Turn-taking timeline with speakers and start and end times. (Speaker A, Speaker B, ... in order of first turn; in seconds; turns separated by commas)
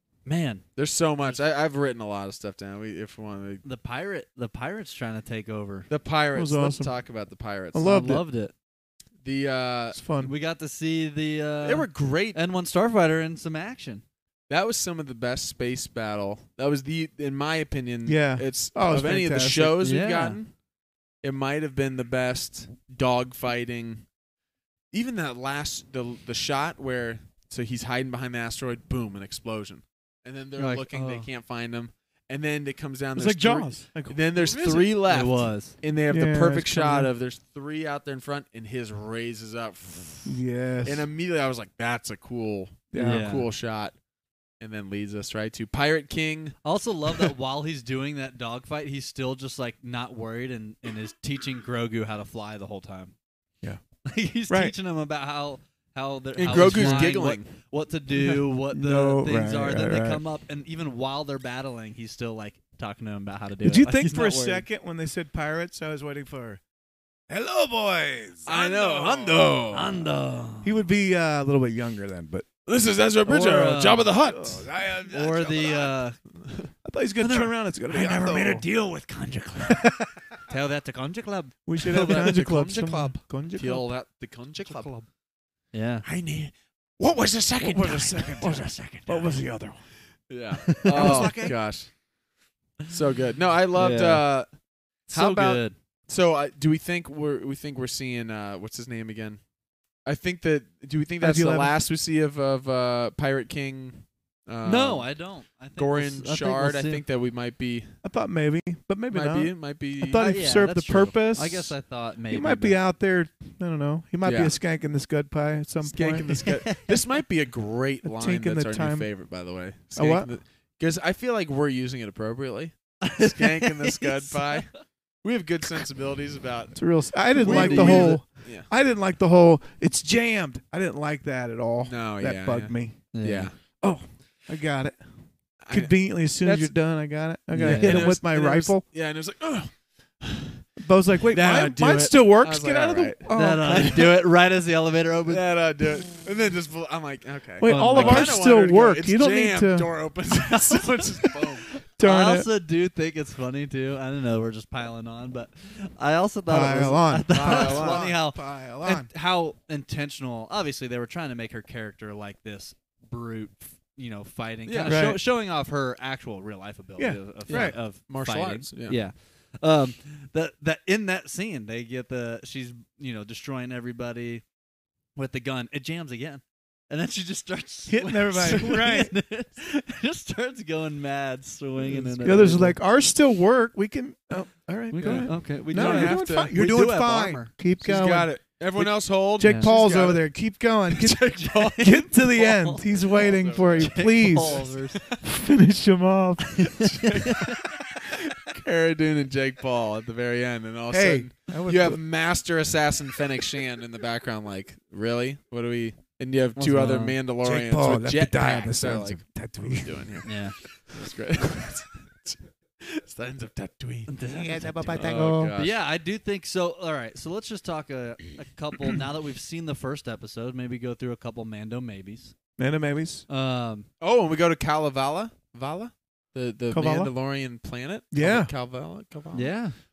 Speaker A: 0.2-0.7, Speaker B: 0.8-3.6, Speaker A: 3.6-5.9, Speaker B: 5.9-7.9, Speaker C: 6.3-6.9, Speaker C: 7.7-8.2, Speaker A: 7.8-8.5, Speaker B: 9.2-10.0, Speaker C: 9.9-10.3, Speaker A: 10.2-14.0, Speaker B: 11.6-12.4, Speaker B: 14.5-20.6, Speaker C: 18.1-19.8, Speaker A: 19.8-20.4, Speaker B: 21.2-24.1, Speaker B: 24.9-44.0, Speaker A: 30.6-31.3, Speaker C: 33.1-34.6, Speaker A: 34.5-35.8, Speaker C: 36.1-37.1, Speaker C: 40.3-41.1, Speaker C: 42.9-43.3, Speaker A: 43.0-43.5, Speaker B: 44.6-46.6, Speaker A: 46.6-53.1, Speaker A: 54.1-64.7, Speaker C: 54.5-54.8, Speaker B: 56.4-57.5, Speaker C: 56.5-57.1, Speaker C: 58.1-60.2, Speaker C: 63.6-66.6, Speaker C: 67.3-69.6, Speaker B: 68.5-69.9, Speaker A: 69.7-70.8, Speaker C: 70.6-72.5, Speaker B: 72.7-74.7, Speaker A: 73.3-74.1, Speaker C: 74.2-75.6, Speaker A: 75.1-76.2, Speaker B: 76.4-76.7, Speaker C: 76.8-78.7, Speaker A: 77.2-79.8, Speaker C: 79.7-80.3, Speaker A: 80.5-82.4, Speaker C: 81.7-83.9, Speaker B: 81.9-84.9, Speaker A: 84.7-84.9, Speaker A: 85.7-86.0, Speaker D: 86.1-88.7, Speaker C: 87.6-89.9, Speaker A: 88.4-89.4, Speaker B: 90.3-91.9, Speaker A: 90.7-91.4, Speaker C: 90.9-91.5, Speaker B: 92.9-94.5, Speaker A: 93.8-94.4, Speaker B: 95.1-99.4, Speaker A: 95.1-95.8, Speaker B: 100.0-105.1, Speaker C: 101.2-101.7, Speaker A: 104.6-107.0, Speaker B: 105.8-108.0, Speaker C: 108.0-111.8, Speaker B: 109.1-110.5, Speaker A: 110.2-112.8, Speaker C: 112.3-116.4, Speaker B: 114.2-114.6, Speaker B: 115.8-128.7, Speaker A: 116.4-117.0, Speaker C: 118.0-119.1, Speaker C: 120.0-120.3, Speaker A: 123.0-124.7, Speaker C: 126.8-133.1, Speaker A: 127.4-128.2, Speaker B: 131.8-133.6, Speaker A: 133.1-133.5, Speaker C: 133.8-135.0, Speaker B: 135.6-136.7, Speaker C: 135.7-138.8, Speaker A: 137.5-138.1, Speaker B: 137.6-140.7, Speaker C: 140.8-144.1, Speaker B: 141.3-144.1, Speaker A: 143.3-145.4, Speaker B: 145.3-151.7, Speaker C: 147.6-149.9, Speaker A: 147.7-148.4, Speaker C: 152.0-152.5, Speaker A: 152.0-174.4, Speaker C: 156.5-159.1, Speaker B: 157.3-158.1, Speaker B: 164.7-165.1, Speaker C: 164.9-165.2, Speaker C: 167.0-167.8, Speaker B: 167.5-169.0, Speaker A: 175.2-182.8, Speaker C: 177.9-179.1, Speaker B: 181.8-182.6, Speaker C: 182.2-196.9, Speaker A: 184.9-187.5, Speaker B: 185.0-186.8, Speaker B: 187.8-190.3, Speaker A: 189.4-189.7, Speaker B: 190.9-192.2, Speaker A: 191.9-195.0, Speaker B: 192.9-195.2, Speaker B: 196.6-214.1, Speaker A: 196.9-197.6, Speaker C: 200.9-202.0, Speaker A: 206.6-207.2, Speaker C: 207.4-210.2, Speaker A: 210.2-210.6, Speaker A: 214.1-215.0, Speaker C: 214.3-215.6, Speaker B: 214.9-215.8, Speaker A: 215.6-222.3, Speaker C: 222.6-223.2, Speaker A: 223.3-223.9, Speaker B: 224.0-229.5, Speaker C: 226.7-227.1, Speaker C: 228.1-228.5, Speaker A: 229.3-229.8